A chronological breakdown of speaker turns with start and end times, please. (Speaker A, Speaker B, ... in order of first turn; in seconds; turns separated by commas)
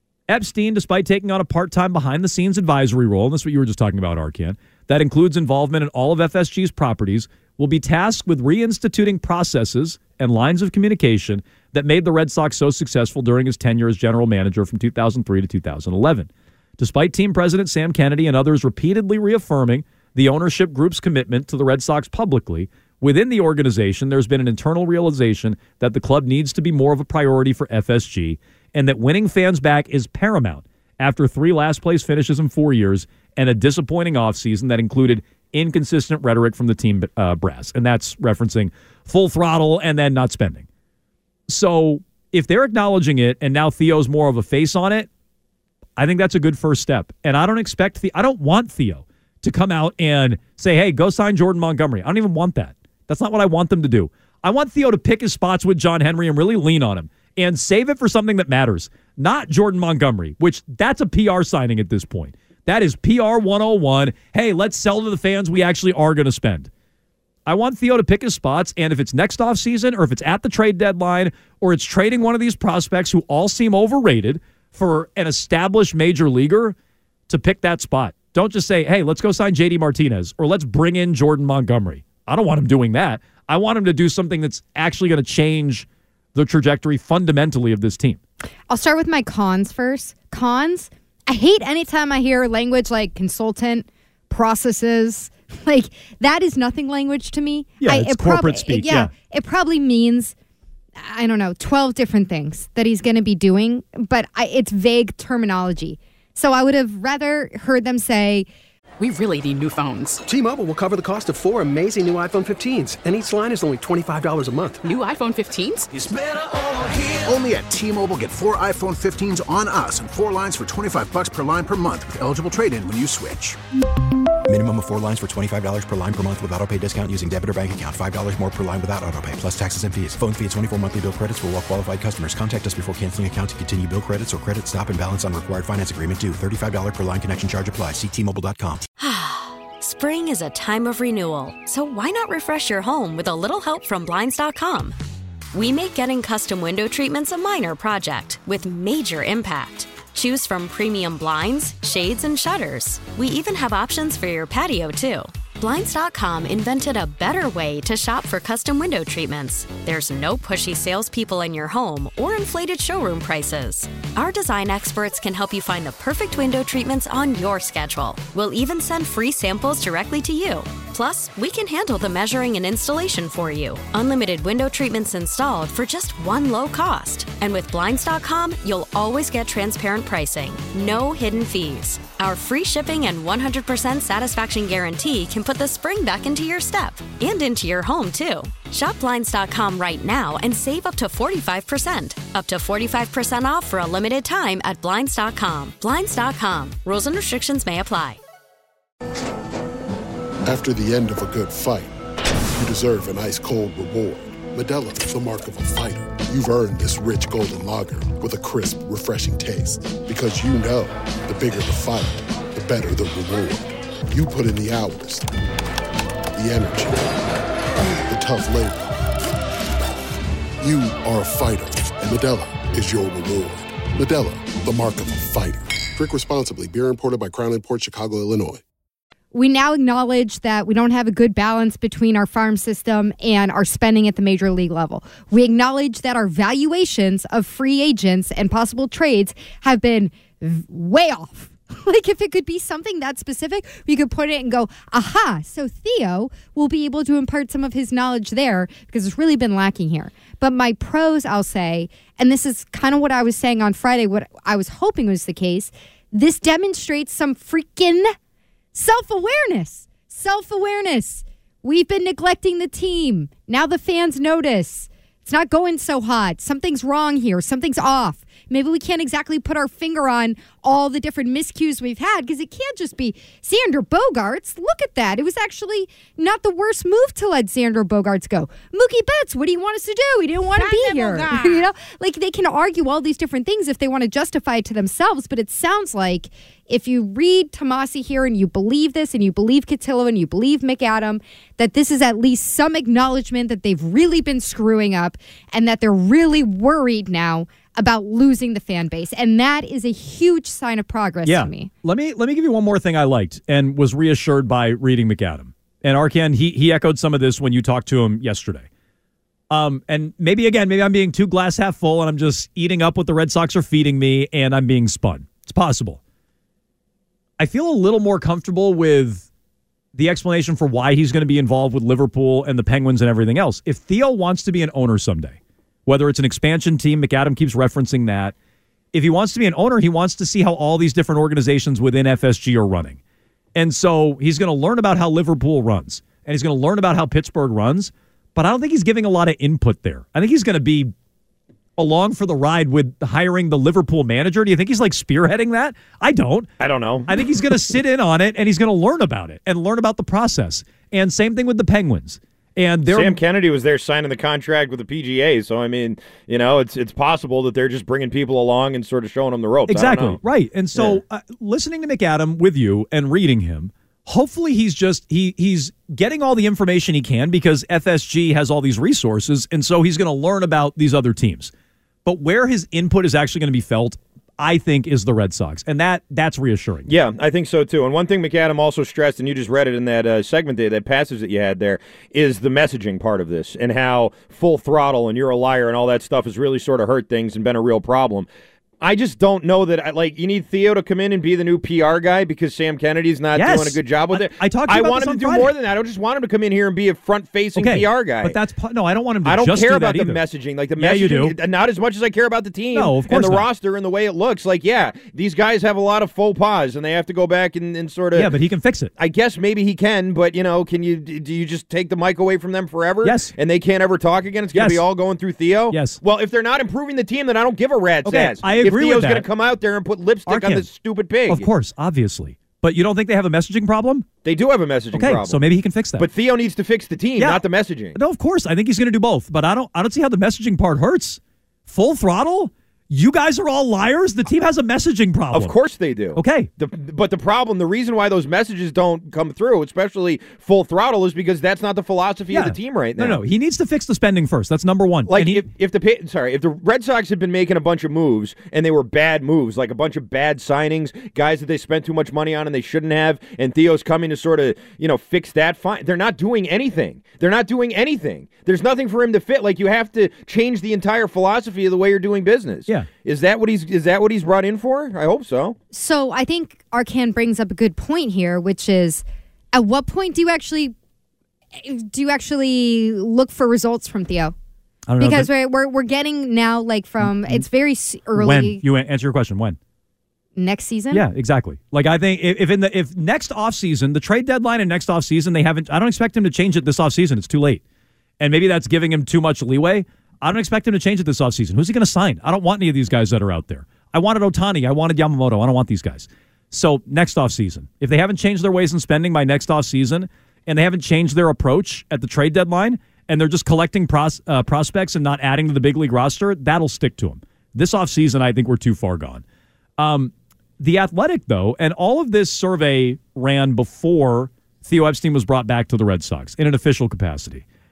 Speaker A: 0.3-40.6, Speaker A: 41.5-45.1, Speaker A: 46.0-66.7, Speaker A: 67.5-76.7, Speaker A: 77.3-88.2, Speaker B: 88.7-100.3, Speaker A: 97.8-99.1, Speaker B: 101.0-108.5, Speaker C: 109.0-110.2, Speaker D: 110.2-114.8, Speaker C: 114.8-115.9, Speaker E: 115.9-123.6, Speaker F: 124.5-138.8, Speaker G: 139.0-145.0, Speaker G: 145.5-198.2, Speaker H: 200.4-201.9, Speaker H: 202.5-215.3, Speaker H: 216.3-217.2, Speaker H: 218.1-218.9, Speaker H: 220.6-228.6, Speaker B: 229.3-258.1, Speaker B: 258.7-301.7, Speaker A: 301.2-308.6, Speaker A: 309.5-316.0, Speaker A: 317.4-319.3, Speaker A: 319.9-328.3, Speaker A: 328.9-333.0, Speaker A: 333.5-340.9, Speaker A: 341.8-346.5, Speaker I: 346.6-347.1, Speaker A: 347.1-353.2, Speaker I: 352.9-360.2, Speaker A: 359.7-371.5, Speaker I: 360.7-361.0, Speaker A: 372.0-376.9, Speaker I: 376.9-388.3, Speaker I: 388.8-398.4, Speaker A: 393.3-395.5, Speaker A: 397.6-400.2, Speaker I: 399.2-408.3, Speaker A: 400.8-401.4, Speaker A: 402.7-403.5, Speaker A: 408.1-408.9, Speaker I: 409.0-421.5, Speaker A: 413.0-413.3, Speaker A: 414.5-414.8, Speaker A: 415.7-416.0, Speaker A: 418.0-419.3, Speaker A: 420.2-420.7, Speaker A: 421.3-424.1, Speaker I: 424.2-425.4, Speaker A: 424.9-426.1, Speaker I: 426.0-427.9, Speaker A: 427.2-435.6, Speaker I: 435.3-443.2, Speaker A: 436.1-436.5, Speaker A: 442.3-445.4, Speaker I: 445.1-465.6, Speaker B: 465.7-470.7, Speaker B: 471.6-474.3, Speaker A: 474.9-475.3, Speaker B: 475.0-478.6, Speaker A: 477.0-477.4, Speaker A: 478.1-479.6, Speaker B: 480.4-481.0, Speaker A: 480.9-487.6, Speaker A: 488.2-509.2, Speaker A: 509.8-517.4